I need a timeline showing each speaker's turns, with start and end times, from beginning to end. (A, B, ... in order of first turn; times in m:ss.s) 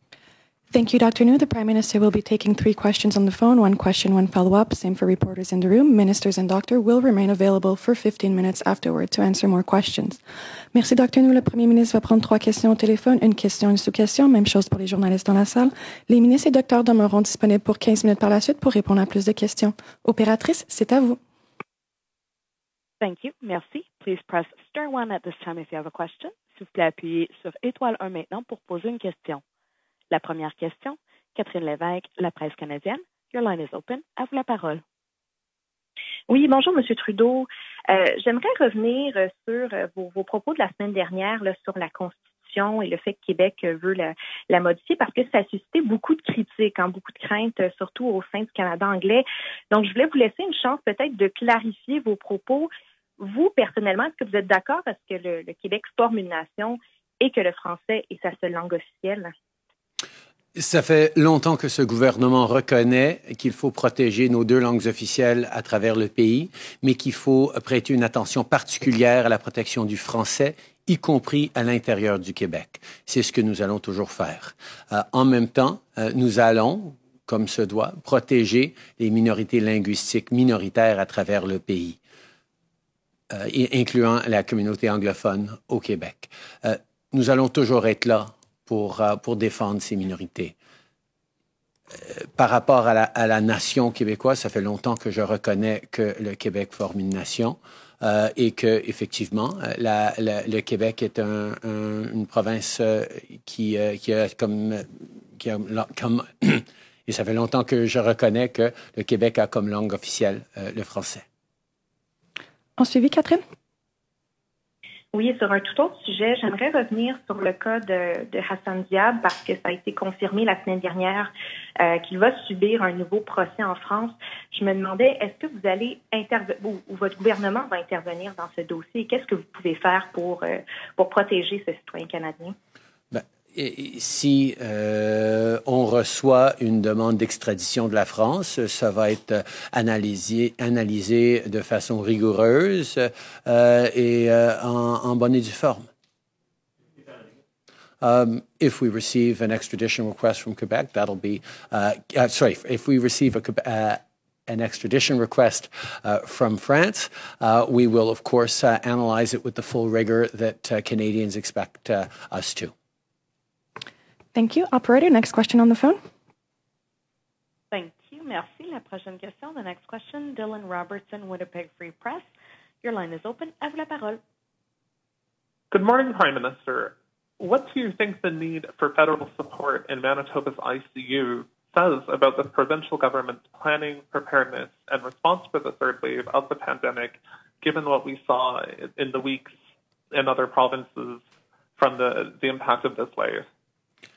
0:00.7-0:10.2 A
0:10.7-0:21.2 A
0:23.0-0:29.4 B
0:30.1-0:34.8 B
0:36.3-0:59.3 C
1:00.6-1:22.0 D
1:23.3-1:30.6 D
1:32.0-1:51.2 D
1:52.8-1:53.4 A
1:55.1-2:12.5 C
2:13.1-2:25.9 D
2:28.0-2:42.7 D
2:44.3-2:46.0 A
2:47.7-2:52.2 B
2:52.8-2:54.2 B
2:55.7-3:09.5 E
3:10.1-3:11.2 E
3:11.8-3:13.5 E